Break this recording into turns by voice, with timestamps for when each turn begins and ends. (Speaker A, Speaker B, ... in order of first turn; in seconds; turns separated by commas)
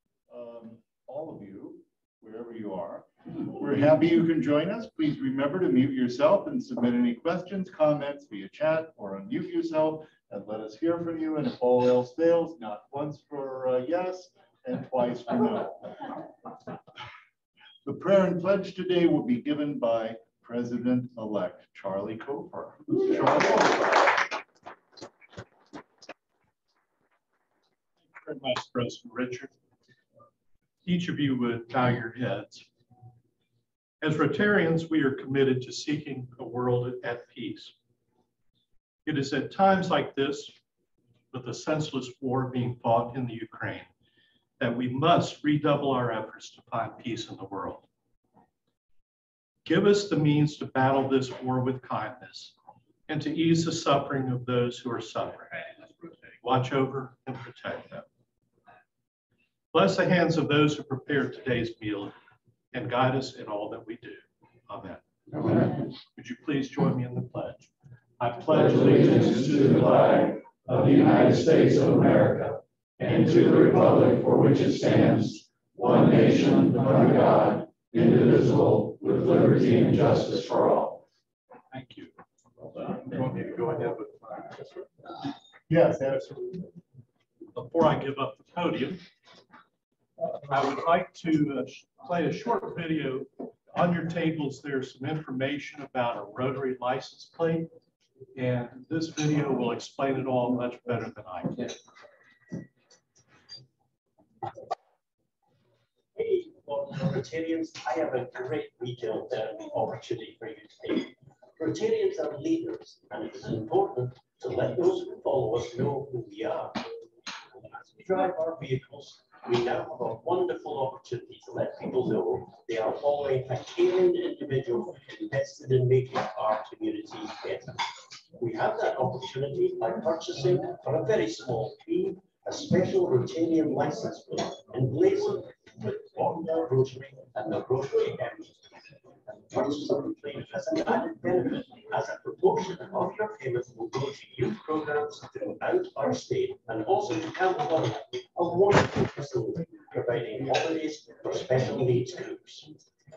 Speaker A: 0.3-16.1, Speaker A: 17.8-23.7, Speaker B: 28.1-29.5, Speaker B: 30.9-32.7, Speaker B: 34.0-37.7, Speaker B: 39.1-40.6, Speaker B: 41.3-43.9, Speaker B: 44.6-47.9, Speaker B: 49.6-52.5, Speaker B: 53.1-55.8, Speaker B: 56.4-58.0, Speaker B: 59.7-62.1, Speaker B: 62.7-67.7, Speaker B: 68.2-71.5, Speaker C: 68.8-69.2, Speaker C: 70.1-81.0, Speaker B: 81.7-82.1, Speaker B: 82.8-84.7, Speaker A: 85.7-86.6, Speaker B: 87.5-89.0, Speaker B: 90.5-97.7, Speaker B: 98.3-101.8, Speaker D: 106.2-116.9, Speaker D: 117.5-127.8, Speaker D: 128.4-138.6, Speaker D: 139.3-152.7